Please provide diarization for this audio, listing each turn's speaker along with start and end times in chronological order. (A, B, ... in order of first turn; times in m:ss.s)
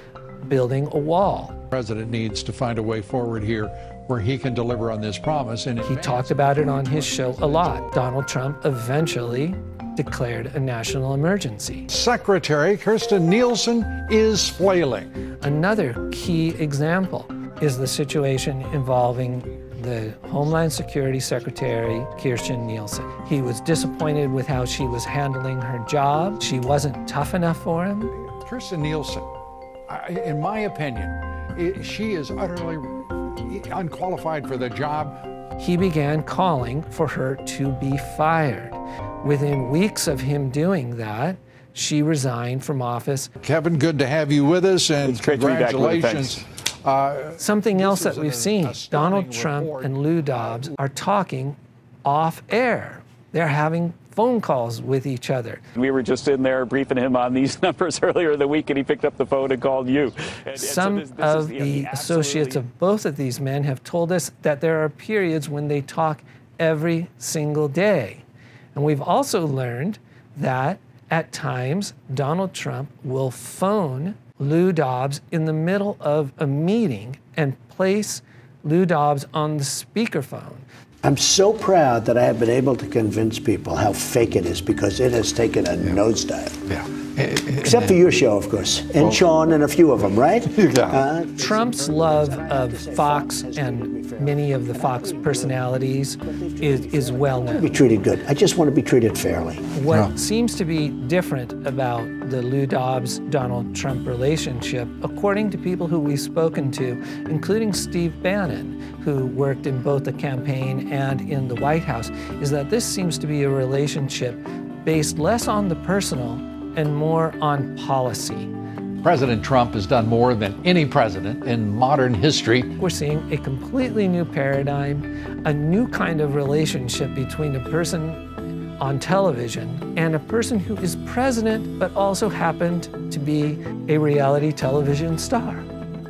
0:00.4-0:01.6 A
0:01.7-0:08.0 B
0:05.8-0:11.9 A
0:11.9-0:15.1 B
0:15.4-0:28.1 A
0:28.4-0:29.3 B
0:29.9-0:35.2 B
0:35.6-0:43.3 A
0:43.4-0:50.7 B
0:45.0-0:46.4 C
0:47.4-0:55.6 A
0:55.7-1:02.6 C
1:00.5-1:20.6 A
1:21.0-1:26.6 D
1:26.7-1:28.0 B
1:27.6-1:39.6 D
1:29.0-1:29.2 B
1:30.5-1:31.1 B
1:31.4-1:37.8 A
1:39.7-1:58.5 A
1:39.9-1:40.1 B
1:59.0-2:02.7 B
2:02.8-2:08.2 A
2:08.8-2:15.6 A